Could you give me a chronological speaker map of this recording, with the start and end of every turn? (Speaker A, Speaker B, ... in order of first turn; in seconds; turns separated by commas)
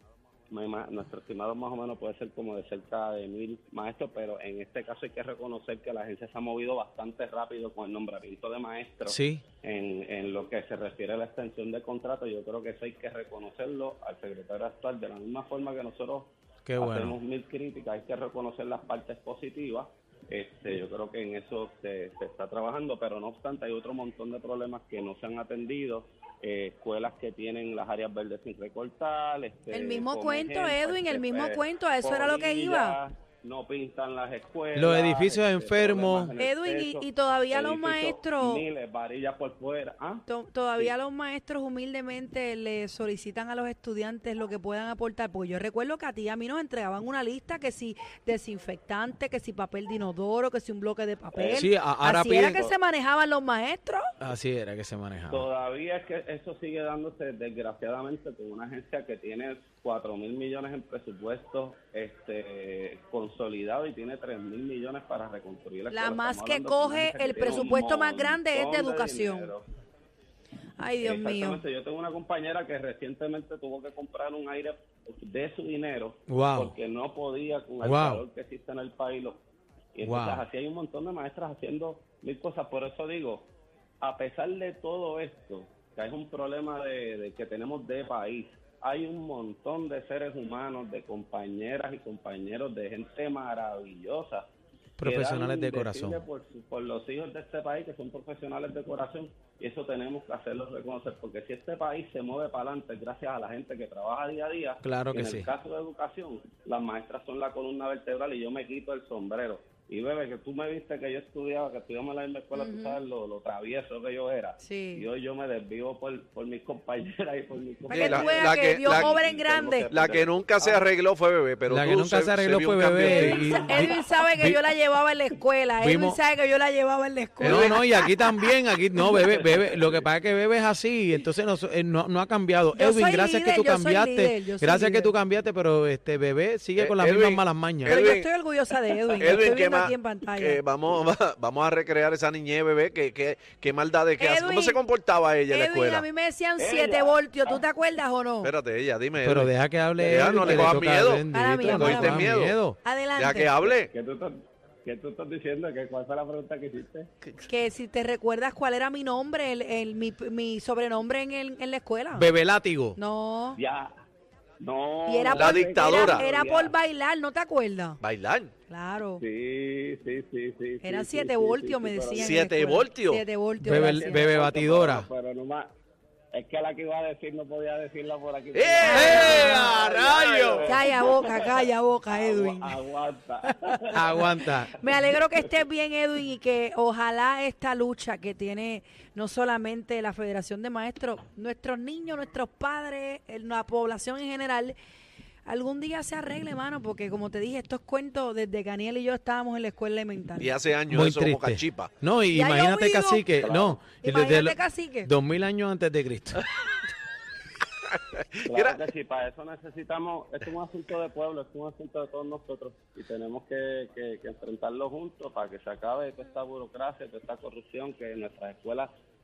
Speaker A: 0.5-40.2, Speaker B: 9.1-9.4, Speaker B: 16.6-17.1, Speaker C: 29.7-33.0, Speaker B: 34.7-36.3, Speaker C: 36.4-38.6, Speaker C: 40.3-54.0, Speaker A: 51.3-51.7, Speaker B: 51.5-52.6, Speaker B: 54.2-55.5, Speaker A: 55.3-69.6, Speaker C: 65.9-69.5, Speaker C: 70.8-71.6, Speaker A: 71.0-79.4, Speaker B: 76.3-76.7, Speaker B: 77.8-78.2, Speaker A: 79.9-83.5, Speaker B: 80.0-80.4, Speaker A: 84.0-94.5, Speaker B: 95.0-96.2, Speaker A: 95.0-120.8, Speaker B: 104.8-105.5, Speaker C: 112.5-113.0, Speaker C: 114.6-115.1, Speaker D: 117.9-119.2, Speaker C: 117.9-119.9, Speaker D: 119.9-123.8, Speaker B: 121.7-124.6, Speaker C: 123.0-127.8, Speaker B: 125.8-126.2, Speaker D: 127.4-127.8, Speaker B: 127.4-138.1, Speaker A: 129.2-130.0, Speaker C: 132.7-135.1, Speaker D: 136.8-138.3, Speaker C: 137.9-140.6, Speaker D: 139.1-146.1, Speaker C: 144.2-144.8, Speaker C: 145.5-148.5, Speaker A: 146.6-147.6, Speaker D: 148.4-152.6, Speaker B: 149.2-152.8, Speaker C: 150.4-150.6, Speaker C: 151.3-153.6, Speaker D: 153.2-153.9, Speaker A: 153.6-157.1, Speaker C: 157.4-162.3, Speaker B: 162.1-163.0, Speaker C: 162.9-163.6, Speaker A: 163.5-164.0, Speaker A: 164.6-166.7, Speaker C: 165.1-168.0, Speaker D: 165.3-166.2, Speaker D: 168.0-168.5, Speaker C: 168.7-169.2, Speaker A: 169.2-172.5, Speaker C: 170.8-174.3, Speaker D: 172.2-173.2, Speaker B: 173.6-175.1, Speaker A: 173.7-175.7, Speaker A: 176.3-185.4, Speaker D: 178.5-180.6, Speaker C: 178.8-179.8, Speaker B: 178.9-180.7, Speaker C: 180.6-182.7, Speaker B: 183.9-184.7, Speaker C: 184.7-194.7, Speaker C: 195.4-200.6, Speaker D: 200.4-201.9, Speaker B: 200.9-206.4, Speaker C: 202.3-203.3, Speaker A: 203.4-203.8, Speaker C: 204.0-205.1, Speaker D: 207.9-208.8, Speaker A: 208.4-218.9